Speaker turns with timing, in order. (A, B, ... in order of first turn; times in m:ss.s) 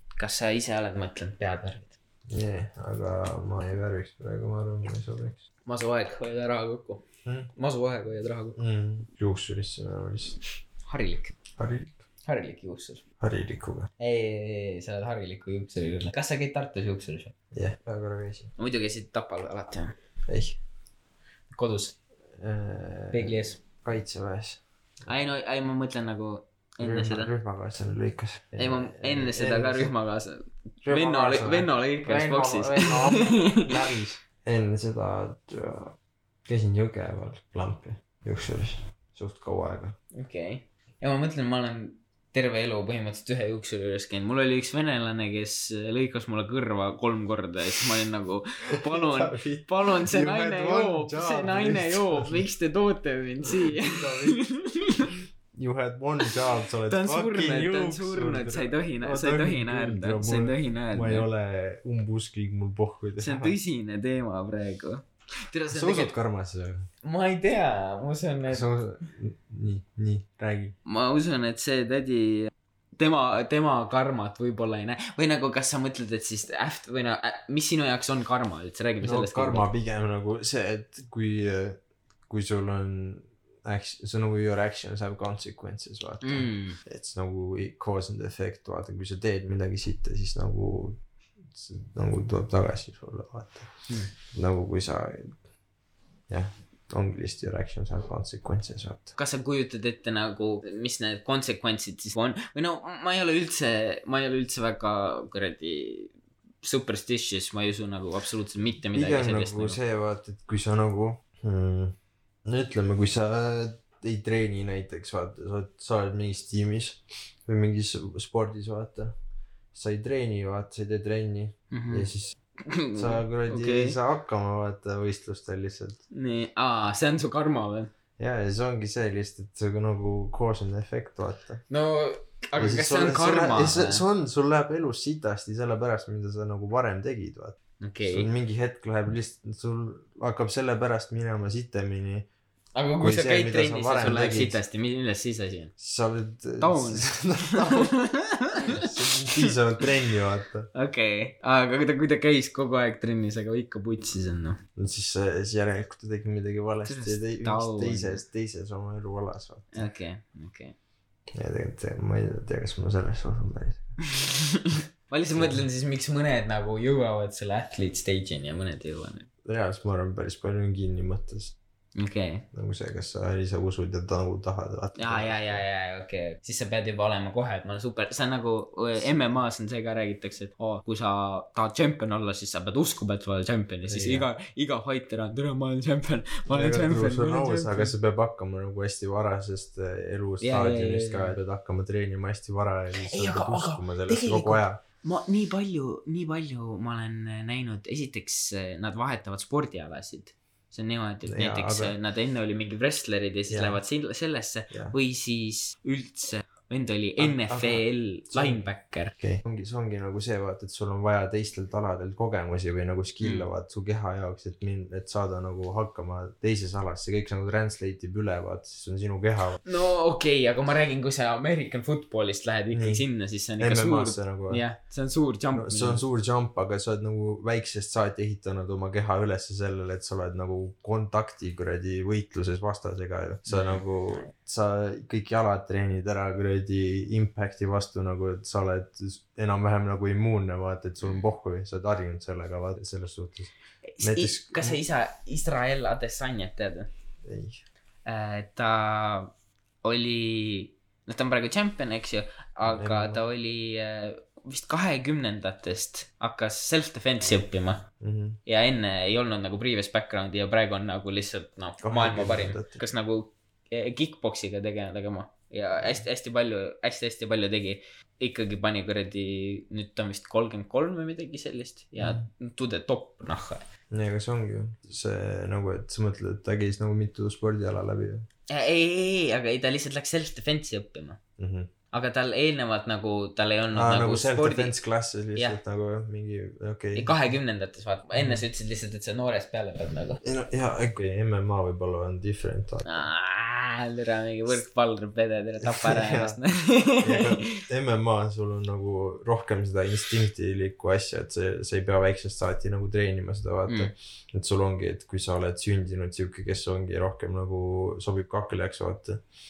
0:00.2-0:01.9 A
0:02.3-0:05.4 B
0:05.6-0:07.0 A
0:07.2-0:07.5 B
0:07.6-0:08.6 A
0:08.6-0:10.4 B
0:10.9-0:11.4 A
0:11.6-0:12.0 B
0:12.3-0:13.0 A
0:13.2-0:13.9 B
0:14.0-0:17.3 A
0:17.5-0:18.5 B
0:18.6-0:19.9 A
0:20.3-0:20.6 B
0:21.5-0:21.9 A
0:22.4-0:24.6 B
0:23.1-0:23.6 A
0:25.0-0:27.3 A
0:26.8-0:29.9 B
0:28.6-0:33.7 A
0:30.8-0:40.0 B
0:40.1-0:55.1 A
0:48.8-0:52.5 B
0:53.4-0:54.4 B
0:55.5-1:03.5 B
0:56.9-1:01.3 A
1:03.2-1:06.1 A
1:05.7-1:06.9 B
1:07.0-1:08.7 A
1:08.5-1:10.7 B
1:10.8-1:19.7 A
1:19.0-1:35.4 B
1:26.2-1:26.8 A
1:36.3-1:39.1 B
1:39.1-1:49.8 A
1:48.9-1:59.1 B
1:59.7-2:02.3 B
2:01.7-2:02.1 A
2:02.6-2:04.0 A
2:02.9-2:06.0 B
2:06.1-2:07.9 A
2:08.2-2:11.6 B
2:11.7-2:14.0 A
2:12.6-2:22.3 B
2:17.8-2:18.3 A
2:22.7-2:25.7 A
2:23.0-2:24.6 B
2:25.8-2:27.9 B
2:26.6-2:29.8 A
2:28.7-2:30.7 B
2:30.7-2:34.6 A
2:34.8-2:39.8 B
2:36.9-2:38.2 A
2:39.7-2:40.7 A
2:41.3-2:44.0 B
2:44.1-2:49.3 A
2:49.4-2:51.5 B
2:52.0-2:52.4 A
2:52.5-2:55.6 B
2:55.0-3:07.9 A
3:03.9-3:04.3 B
3:06.5-3:14.8 B
3:10.4-3:11.4 A
3:13.0-3:29.1 A
3:21.3-3:21.9 B
3:23.5-3:23.8 B
3:24.7-3:25.0 B
3:27.2-3:28.6 B
3:29.2-3:39.6 B
3:33.2-3:33.5 A
3:39.6-3:46.0 A
3:42.7-3:43.0 B
3:43.6-3:44.6 B
3:45.5-4:04.8 B
3:53.5-3:53.8 A
4:03.9-4:06.9 A
4:07.2-4:07.6 B
4:08.0-4:09.3 A
4:09.8-4:17.8 A
4:12.6-4:13.3 B
4:18.0-4:18.4 B
4:18.4-4:33.6 A
4:21.8-4:22.8 B
4:32.0-4:32.2 B
4:33.9-4:38.3 B
4:38.5-4:41.2 A
4:41.4-4:41.7 B
4:41.9-4:44.8 A
4:43.7-4:47.1 B
4:46.9-4:50.2 A
4:48.2-4:48.4 B
4:50.2-4:52.9 B
4:52.8-4:57.6 A
4:55.6-4:56.4 B
4:57.0-5:09.2 B